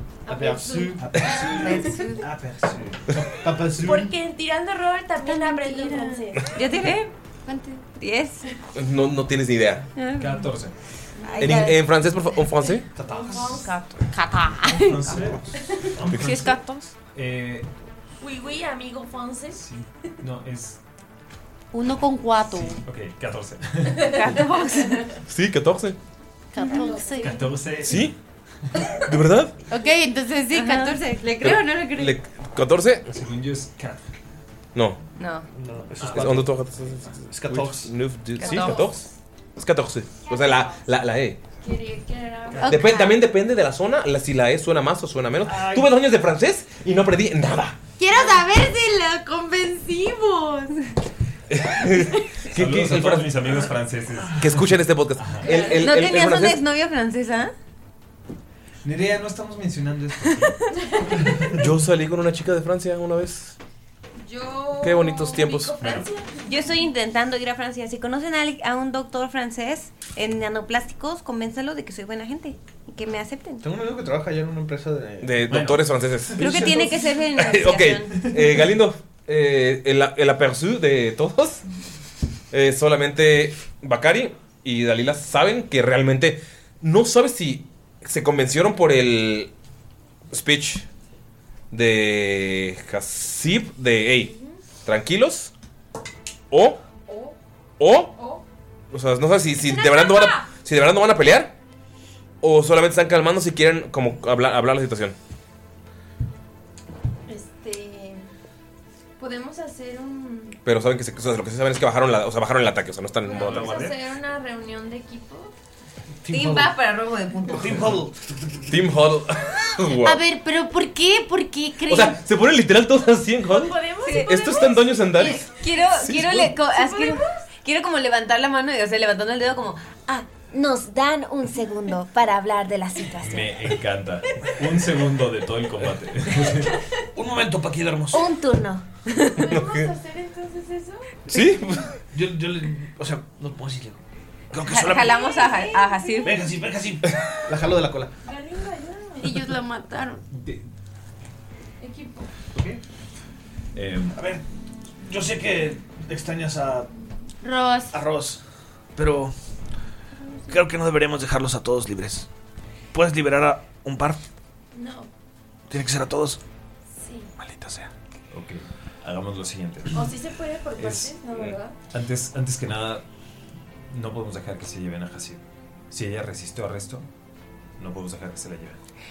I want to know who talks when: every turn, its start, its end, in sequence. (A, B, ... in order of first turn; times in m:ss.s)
0:00.3-0:02.0 A
0:00.3-0:01.2 B
0:01.0-0:03.1 C
0:01.5-0:02.3 D
0:03.2-0:04.1 B
0:03.7-0:06.6 A
0:05.2-0:07.1 D
0:07.4-0:07.8 E
0:07.9-0:08.4 D
0:08.7-0:09.9 F
0:10.0-0:10.5 D
0:10.1-0:10.7 C
0:11.2-0:11.8 D
0:11.4-0:12.9 F
0:12.9-0:13.7 B
0:13.0-0:13.9 A
0:14.1-0:15.3 E
0:14.7-0:16.6 C
0:15.6-0:15.9 A
0:16.1-0:16.4 F
0:16.2-0:16.6 D
0:17.1-0:17.7 C
0:18.2-0:19.7 A
0:19.6-0:20.8 C
0:21.7-0:22.8 E
0:22.6-0:24.2 C
0:24.0-0:25.2 A
0:24.1-0:25.0 D
0:25.3-0:26.0 F
0:26.5-0:27.4 E
0:26.6-0:26.9 D
0:26.6-0:27.5 A
0:27.2-0:28.1 C
0:27.9-0:28.1 F
0:29.0-0:29.5 F
0:29.7-0:32.1 E
0:30.5-0:31.0 D
0:31.4-0:33.1 F
0:33.1-0:34.0 C
0:35.2-0:35.5 D
0:35.5-0:36.5 B
0:36.0-0:36.4 C
0:36.1-0:39.0 F
0:37.3-0:37.9 B
0:38.4-0:38.9 D
0:38.4-0:38.9 A
0:39.6-0:41.4 F
0:41.6-0:42.8 A
0:42.6-0:43.2 E
0:42.6-0:47.8 F
0:45.5-0:45.9 C
0:48.0-0:50.8 E
0:51.5-0:53.6 F
0:52.5-0:55.5 C
0:54.4-0:56.6 F
0:55.4-0:55.9 A
0:55.7-0:57.5 D
0:58.8-1:00.6 C
1:00.8-1:01.6 A
1:01.6-1:03.6 F
1:04.2-1:06.6 A
1:04.8-1:05.8 F
1:05.8-1:06.1 C
1:06.4-1:13.6 D
1:13.6-1:15.4 B
1:15.2-1:16.7 F
1:15.5-1:16.9 C
1:16.4-1:18.3 D
1:17.3-1:21.6 F
1:22.5-1:29.5 F
1:30.3-1:30.8 F
1:31.7-1:34.3 F
1:34.8-1:35.5 F
1:36.5-1:36.8 F
1:37.0-1:37.4 A
1:37.8-1:38.1 F
1:38.1-1:38.4 A
1:38.9-1:41.5 F
1:39.6-1:40.5 A
1:42.4-1:45.1 F
1:47.3-1:48.3 A
1:49.2-1:50.6 A
1:50.6-1:53.8 F
1:53.2-1:55.5 A
1:53.3-1:54.0 C
1:56.2-1:56.7 B
1:56.3-1:57.8 D
1:57.5-1:58.7 B
1:58.7-2:00.2 F
2:00.0-2:02.2 E
2:01.9-2:06.5 F
2:03.4-2:05.4 A
2:04.0-2:09.9 D
2:06.6-2:07.5 A
2:10.1-2:13.6 G
2:13.2-2:16.7 C
2:17.1-2:18.3 B
2:18.1-2:18.8 G
2:19.1-2:19.4 D
2:19.3-2:21.1 A
2:19.4-2:19.9 F
2:21.3-2:22.0 F
2:22.1-2:24.0 B
2:24.5-2:25.2 B
2:24.6-2:26.4 D
2:25.0-2:26.5 A
2:26.2-2:28.1 B
2:28.2-2:29.4 A
2:29.2-2:30.2 E
2:30.3-2:30.7 C
2:31.8-2:32.3 A
2:33.7-2:34.2 C
2:34.1-2:34.4 B
2:35.0-2:36.9 B
2:37.4-2:38.0 E
2:37.9-2:38.4 B
2:39.0-2:39.3 B
2:40.5-2:42.3 B
2:42.9-2:44.2 B
2:44.7-2:45.1 A
2:45.7-2:46.4 B
2:47.0-2:47.3 A
2:47.4-2:47.9 B
2:48.3-2:50.2 C
2:49.9-2:51.7 A
2:50.8-2:51.2 C
2:51.9-2:53.0 C
2:53.9-2:57.1 C
2:57.8-2:58.8 C